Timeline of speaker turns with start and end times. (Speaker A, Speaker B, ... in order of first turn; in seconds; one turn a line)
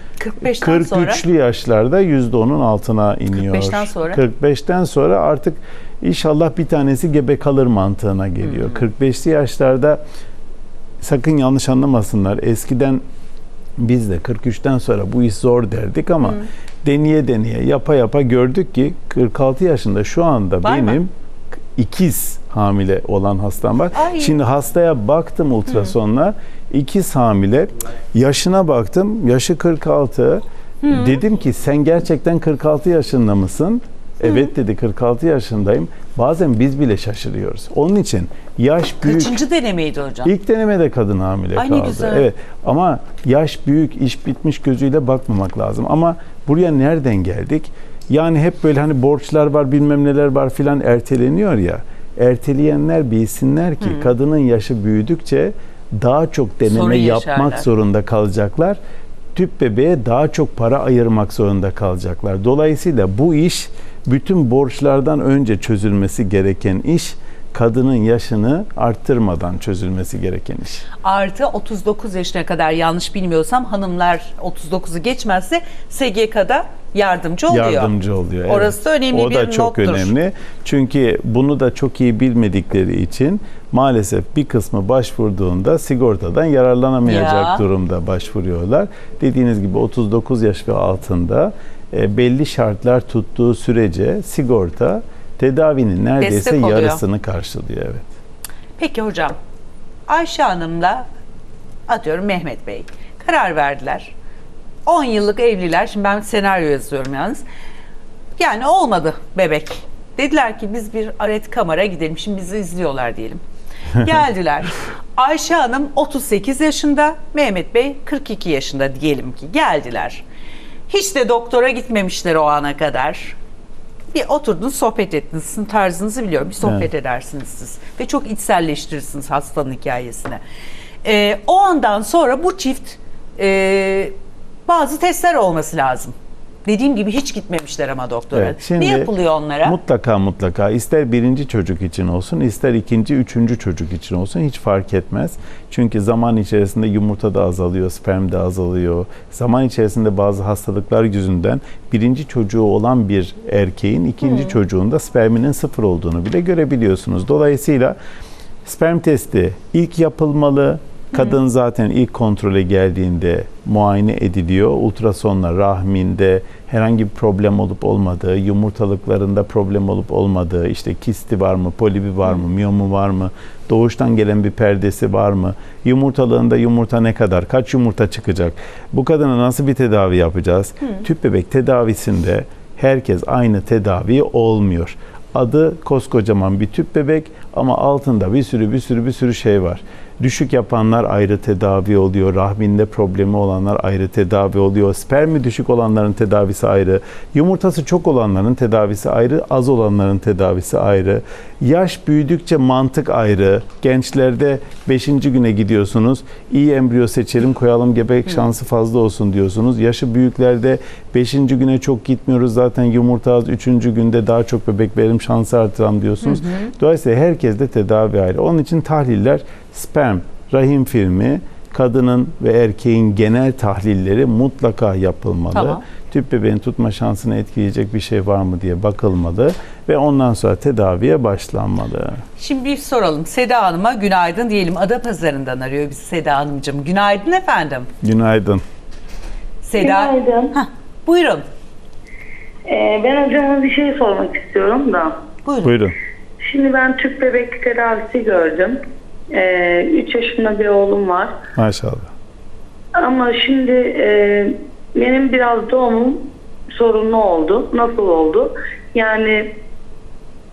Speaker A: 0.2-1.2
Speaker B: 0.4-10.0
Speaker A: 3.3-4.2
Speaker B: 11.0-13.0
Speaker B: 13.8-21.1
Speaker A: 20.6-21.0
Speaker B: 21.8-39.4
Speaker A: 24.0-24.4
Speaker A: 30.8-31.1
Speaker A: 39.0-40.3
Speaker B: 40.2-58.8
Speaker A: 41.6-42.3
Speaker A: 56.6-57.7
Speaker B: 59.4-70.9
Speaker A: 71.0-77.9
Speaker B: 77.5-98.1
Speaker A: 78.5-80.1
Speaker A: 87.1-87.6
Speaker A: 96.2-97.0
Speaker A: 98.8-99.4
Speaker A: 100.1-101.1
Speaker A: 101.9-104.1
Speaker A: 104.9-107.4
Speaker A: 108.4-113.4
Speaker A: 114.0-120.2
Speaker A: 120.9-123.4
Speaker A: 124.1-130.4
Speaker A: 131.0-134.2
Speaker A: 134.7-136.1
Speaker A: 136.7-139.8
Speaker B: 138.3-139.1
Speaker B: 139.6-158.0
Speaker B: 158.7-232.2
Speaker A: 216.3-216.7
Speaker A: 225.5-225.8
Speaker A: 232.4-237.9
Speaker B: 238.0-238.6
Speaker A: 239.6-241.4
Speaker C: 239.8-240.5
Speaker C: 242.7-245.2
Speaker A: 245.4-245.8
Speaker B: 245.6-246.0
Speaker C: 246.4-248.8
Speaker C: 249.3-251.4
Speaker B: 251.6-252.1
Speaker C: 253.0-259.6